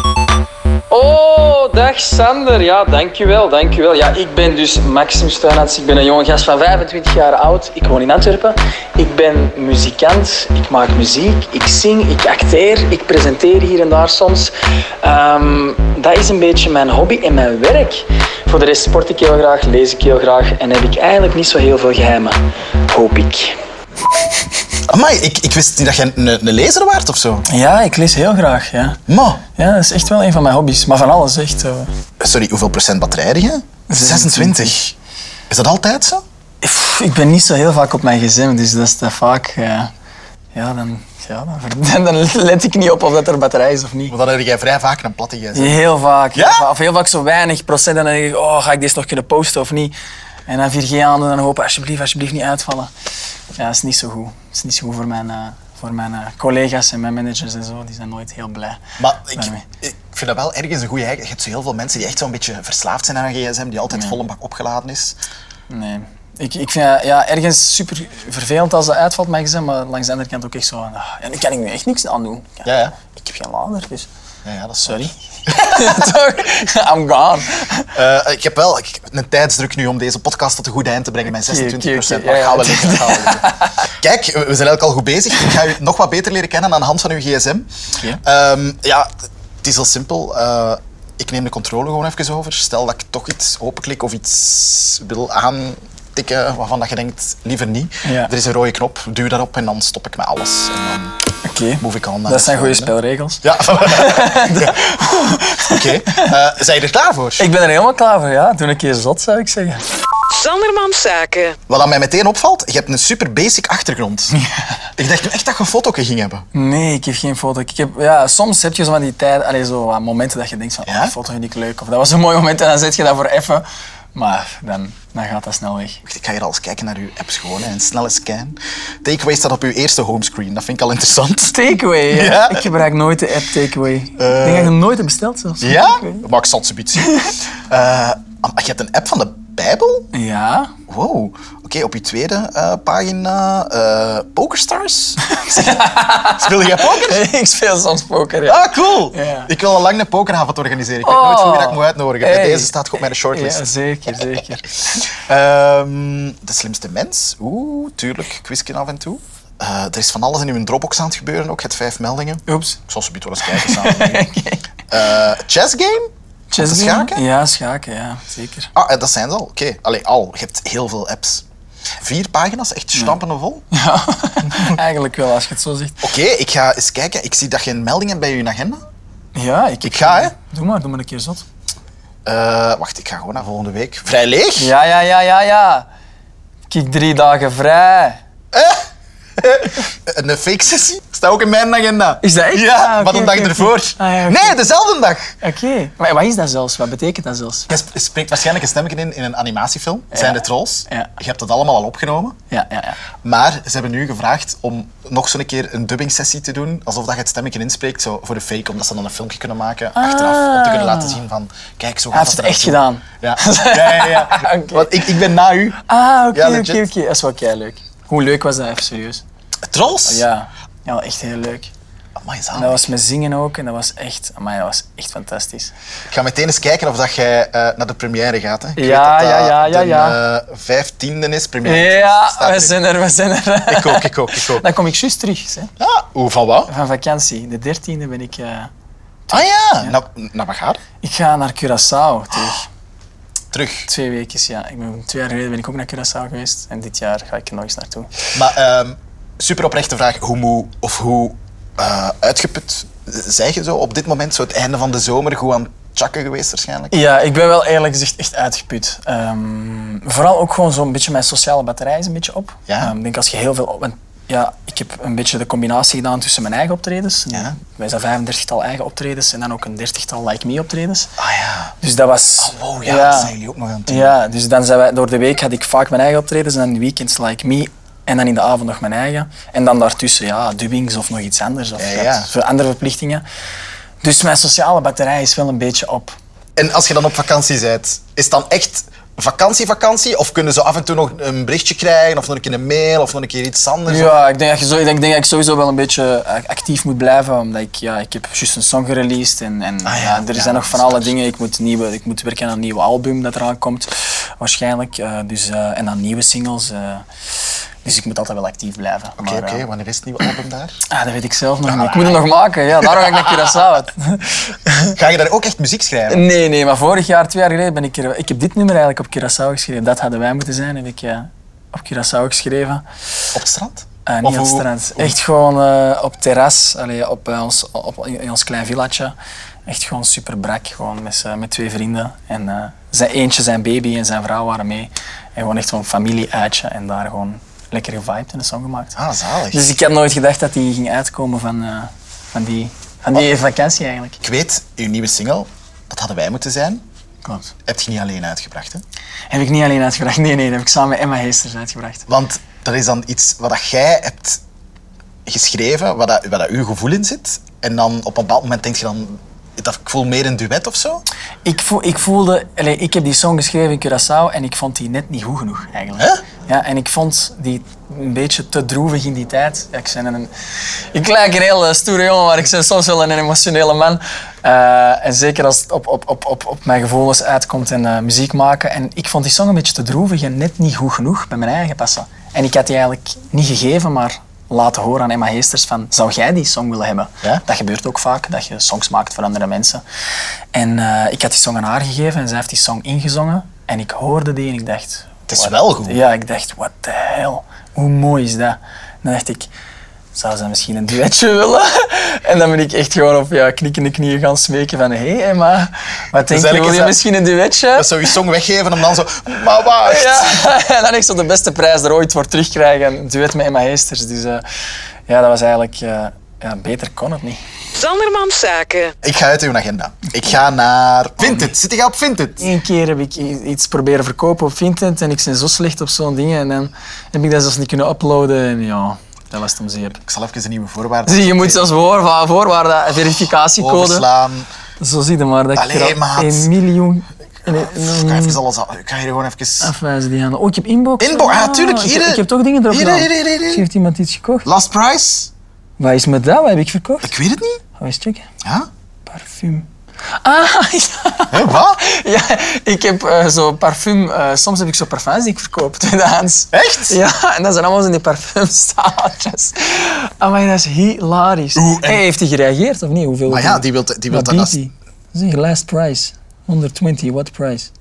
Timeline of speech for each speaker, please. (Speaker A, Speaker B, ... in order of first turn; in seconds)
Speaker A: 0.9-23.6, 27.5-29.0, 29.6-31.9, 33.9-34.8, 36.6-39.9, 40.5-44.1, 45.5-50.0, 50.5-52.9, 53.6-58.8, 59.3-59.6, 63.9-64.2, 65.7-74.1, 74.8-77.9, 81.3-83.9, 98.0-98.3, 101.5-106.3, 107.4-109.9, 116.5-126.0, 131.5-136.2, 137.0-137.3, 140.1-140.7, 145.2-149.5, 151.0-152.7, 153.3-155.1, 162.5-162.8, 163.4-164.7, 166.5-168.7, 173.7-176.1, 179.3-181.4, 184.6-185.9, 186.7-188.2, 192.2-194.6, 195.4-197.7, 200.1-201.1, 202.5-203.0, 209.9-211.2, 212.1-215.2, 215.8-219.2, 220.1-221.7, 222.5-225.7, 228.8-230.2, 231.6-235.7, 236.7-238.7, 239.3-240.0, 241.0-242.7, 243.9-248.1, 256.9-271.1, 271.8-273.3, 273.9-283.2, 284.0-286.2, 293.9-307.1, 307.8-309.6, 310.9-315.0, 316.1-322.8, 324.1-329.1, 329.7-339.0, 339.5-344.2, 347.2-347.5, 349.3-352.1, 361.4-370.3, 370.9-389.8, 390.5-399.5, 400.1-408.1, 409.8-414.4, 415.1-417.4, 421.2-421.5, 422.4-430.0, 431.1-434.1, 434.8-438.4, 439.6-444.5, 445.8-447.1, 447.8-448.3, 449.1-467.7
Speaker B: 24.9-27.5, 29.1-29.4, 32.2-35.0, 35.5-36.2, 44.1-45.8, 46.4-46.7, 59.0-65.2, 72.7-73.0, 74.5-76.1, 77.9-87.7, 88.2-89.1, 89.6-101.2, 101.8-104.9, 105.7-107.5, 111.7-114.4, 115.0-116.5, 120.9-121.1, 126.0-132.7, 134.2-134.8, 135.6-140.1, 140.9-145.2, 146.3-147.3, 148.5-153.7, 154.9-164.3, 164.9-167.2, 168.7-171.4, 172.0-173.7, 174.4-174.8, 176.0-178.8, 179.8-180.3, 182.2-184.7, 188.5-188.8, 189.4-195.3, 197.7-202.4, 203.1-215.8, 216.3-216.8, 219.6-220.2, 222.2-222.9, 226.1-232.8, 233.7-234.7, 235.8-236.7, 239.3-240.8, 243.5-243.9, 248.3-257.0, 262.7-262.9, 271.2-271.8, 272.4-274.2, 281.8-282.3, 286.6-294.2, 299.8-301.1, 309.2-310.8, 311.6-312.3, 312.8-313.6, 314.9-316.2, 323.3-325.2, 338.9-339.7, 344.2-346.9, 347.7-348.8, 352.1-354.4, 355.3-361.0, 395.3-396.0, 406.2-407.0, 407.7-410.4, 419.0-422.5, 430.0-431.7, 433.6-434.5, 435.6-436.5, 437.5-439.7, 441.0-443.7, 444.4-445.3, 447.0-447.6, 448.4-448.7, 451.3-451.8, 456.5-457.0, 461.6-462.1, 463.3-464.6
Speaker C: 110.3-111.6, 417.8-418.9